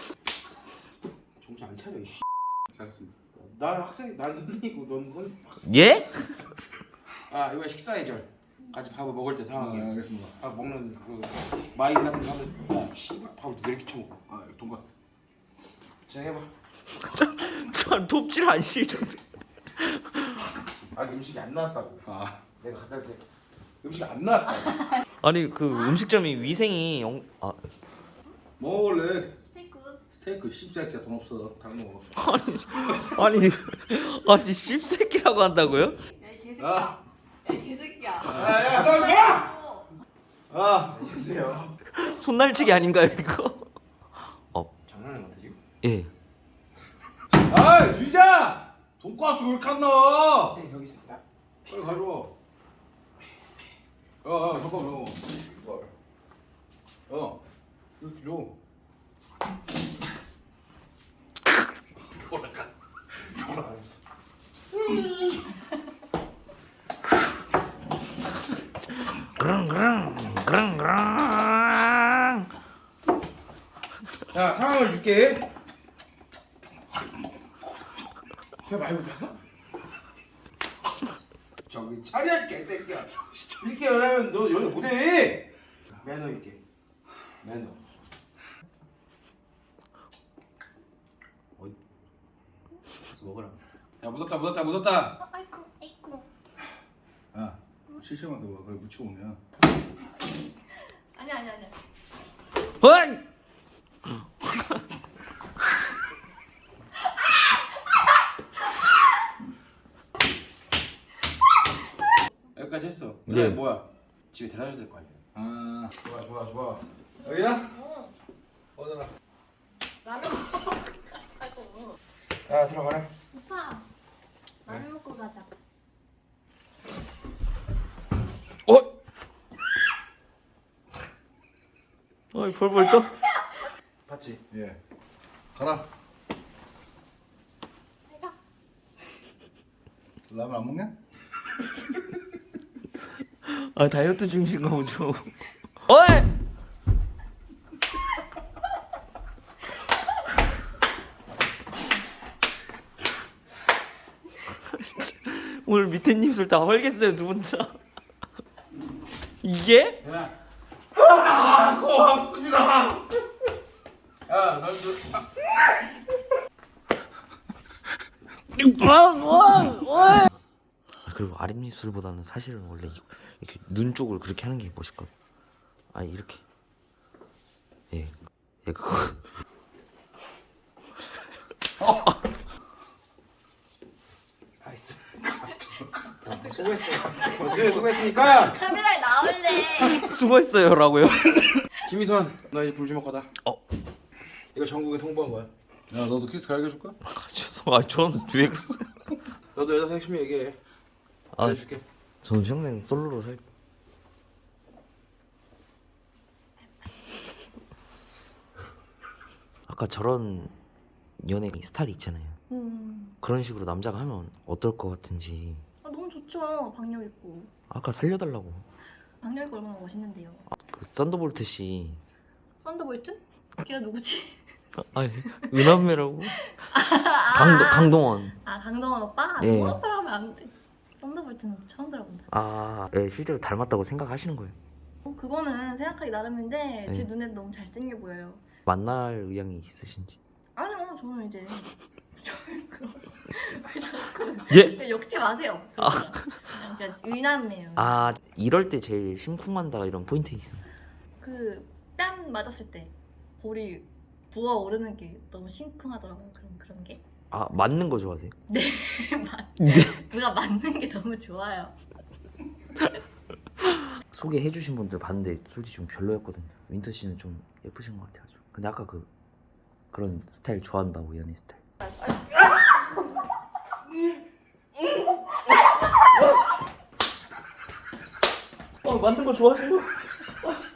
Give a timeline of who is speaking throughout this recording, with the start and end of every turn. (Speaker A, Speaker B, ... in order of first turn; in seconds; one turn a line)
Speaker A: 1.4-2.2
Speaker B: 2.7-3.1
Speaker A: 3.3-5.8
Speaker C: 5.7-6.4
Speaker A: 7.3-14.2
Speaker B: 9.6-10.3
Speaker B: 14.3-14.9
Speaker A: 16.1-16.5
Speaker C: 17.0-19.2
Speaker C: 19.8-20.4
Speaker A: 20.9-22.0
Speaker B: 22.1-22.4
Speaker A: 22.6-23.2
Speaker A: 23.8-25.0
Speaker C: 25.2-27.6
Speaker B: 28.6-29.3
Speaker D: 29.5-30.0
Speaker B: 30.2-32.1
Speaker C: 32.2-36.0
Speaker D: 36.2-39.9
Speaker B: 36.6-37.0
Speaker A: 38.3-39.5
Speaker B: 40.5-41.1
Speaker A: 40.9-41.7
Speaker C: 41.9-43.7
Speaker A: 44.9-45.6
Speaker C: 45.8-46.1
Speaker A: 47.4-48.7
Speaker B: 49.0-50.6
Speaker A: 50.5-52.3
Speaker A: 54.2-55.9
Speaker B: 57.1-57.4
Speaker B: 58.0-58.5
Speaker A: 62.3-62.7
Speaker A: 63.3-64.0
Speaker A: 64.7-65.4
Speaker C: 69.4-72.4
Speaker A: 74.3-75.5
Speaker A: 78.7-79.4
Speaker A: 81.7-85.5
Speaker A: 86.0-86.6
Speaker A: 87.4-87.8
Speaker A: 93.1-95.2
Speaker D: 95.2-96.3
Speaker B: 97.3-99.4
Speaker D: 101.1-101.8
Speaker C: 102.8-103.2
Speaker A: 112.5-115.2
Speaker C: 113.3-113.6
Speaker B: 115.3-115.9
Speaker A: 116.0-116.8
Speaker B: 117.2-117.7
Speaker D: 117.3-118.1
Speaker B: 118.8-119.1
Speaker D: 120.0-122.0
Speaker A: 122.5-123.1
Speaker D: 123.3-123.8
Speaker D: 124.7-125.5
Speaker C: 132.3-133.1
Speaker A: 134.1-134.4
Speaker B: 134.5-134.8
Speaker B: 135.6-135.9
Speaker B: 140.3-140.9
Speaker C: 143.4-145.3
Speaker C: 145.9-146.3
Speaker C: 154.5-157.8
Speaker C: 159.4-160.0
Speaker A: 160.0-160.3
Speaker A: 161.1-162.9
Speaker A: 164.3-165.3
Speaker C: 168.6-170.3
Speaker C: 171.1-175.1
Speaker C: 175.9-176.4
Speaker C: 178.7-179.2
Speaker A: 184.6-185.1
Speaker A: 186.2-188.7
Speaker D: 187.5-190.1
Speaker C: 189.8-191.6
Speaker A: 191.8-193.3
Speaker A: 194.5-195.5
Speaker B: 195.9-197.0
Speaker C: 197.1-198.8
Speaker A: 199.6-200.6
Speaker A: 201.4-201.8
Speaker C: 202.2-203.4
Speaker C: 209.7-210.5
Speaker C: 211.2-212.4
Speaker D: 212.5-213.2
Speaker C: 213.2-215.6
Speaker D: 215.8-217.5
Speaker C: 217.7-218.7
Speaker D: 219.2-220.5
Speaker C: 220.7-222.0
Speaker D: 222.6-224.4
Speaker C: 224.9-226.4
Speaker D: 226.6-232.3
Speaker C: 227.3-228.4
Speaker C: 229.4-229.8
Speaker C: 232.3-234.6
Speaker D: 235.1-238.4
Speaker C: 238.7-240.2
Speaker D: 240.6-248.1
Speaker C: 244.5-244.8
Speaker C: 247.8-250.6
Speaker D: 251.2-257.0
Speaker C: 257.3-258.3
Speaker D: 258.5-261.7
Speaker C: 259.6-259.9
Speaker C: 263.8-269.1
Speaker C: 269.9-271.6
Speaker C: 274.9-275.3
Speaker C: 278.8-280.0